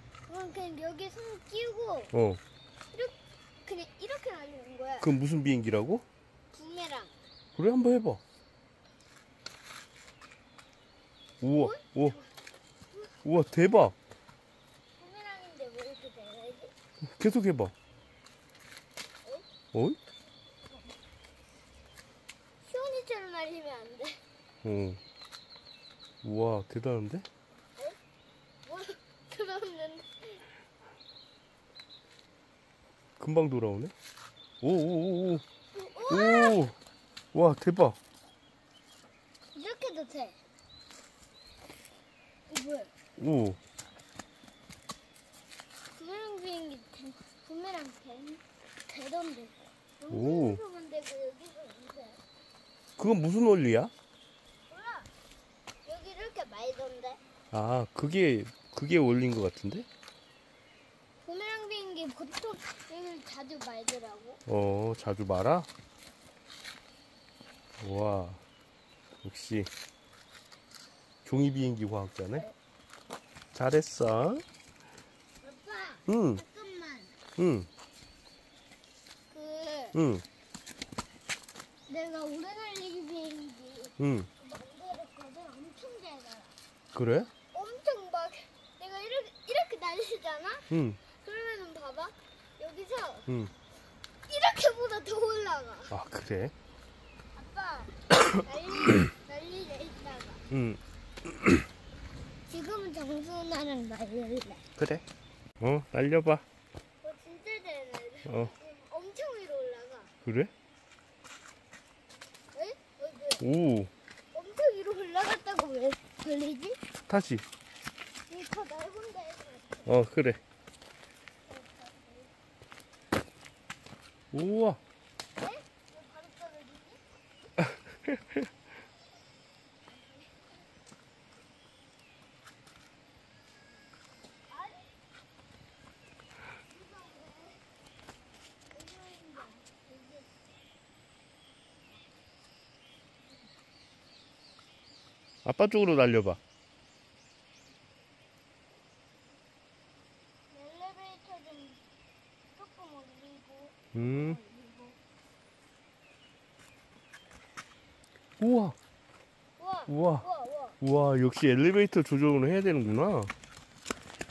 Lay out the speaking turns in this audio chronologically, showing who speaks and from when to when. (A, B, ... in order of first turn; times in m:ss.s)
0:00.3-0:02.1 A
0:02.1-0:02.4 B
0:02.9-0:05.1 A
0:05.0-0:06.0 B
0:06.5-0:07.1 A
0:07.5-0:08.2 B
0:11.4-0:12.2 B
0:11.5-0:12.3 A
0:13.2-0:13.9 B
0:15.0-0:16.7 A
0:17.0-0:17.7 B
0:19.7-0:20.0 B
0:22.6-0:24.2 A
0:24.6-0:25.0 B
0:26.2-0:27.3 B
0:28.6-0:30.4 A
0:33.2-0:33.9 B
0:34.6-0:35.4 B
0:35.7-0:36.7 A
0:36.1-0:36.7 B
0:37.3-0:38.0 B
0:39.5-0:40.4 A
0:42.5-0:42.9 A
0:43.2-0:43.6 B
0:45.9-0:52.2 A
0:50.1-0:50.6 B
0:53.0-0:53.9 B
0:54.7-0:55.1 A
0:55.8-0:57.2 A
0:57.5-0:59.9 B
1:01.2-1:04.4 A
1:04.4-1:05.7 B
1:07.8-1:08.4 B
1:09.2-1:09.7 B
1:11.2-1:12.4 B
1:13.5-1:14.4 B
1:15.4-1:17.2 A
1:16.1-1:16.4 B
1:17.4-1:17.7 B
1:19.3-1:20.0 A
1:19.9-1:20.2 B
1:21.9-1:26.6 A
1:24.0-1:24.3 B
1:26.9-1:27.3 B
1:27.5-1:33.3 A
1:30.7-1:31.0 B
1:33.3-1:33.5 B
1:34.2-1:35.9 A
1:35.9-1:36.5 B
1:37.3-1:40.5 A
1:40.5-1:40.8 B
1:42.5-1:44.6 A
1:44.8-1:45.0 B
1:45.6-1:46.4 B
1:47.0-1:50.1 A
1:48.2-1:48.5 B
1:50.2-1:50.5 B
1:52.5-1:53.4 A
1:53.4-1:53.9 B
1:54.3-1:56.8 A
1:57.1-1:57.4 B
1:58.3-2:00.0 A
1:59.8-2:00.4 B
2:01.5-2:02.3 A
2:04.3-2:04.8 B
2:05.4-2:07.0 A
2:10.0-2:10.3 A
2:14.5-2:14.9 A
2:16.6-2:17.6 A
2:18.7-2:20.3 A
2:25.4-2:26.4 B
2:30.5-2:31.8 A
2:32.5-2:35.0 A
2:33.9-2:34.4 B
2:38.4-2:38.8 B
2:39.6-2:40.8 A
2:39.9-2:40.3 B
2:40.8-2:43.3 B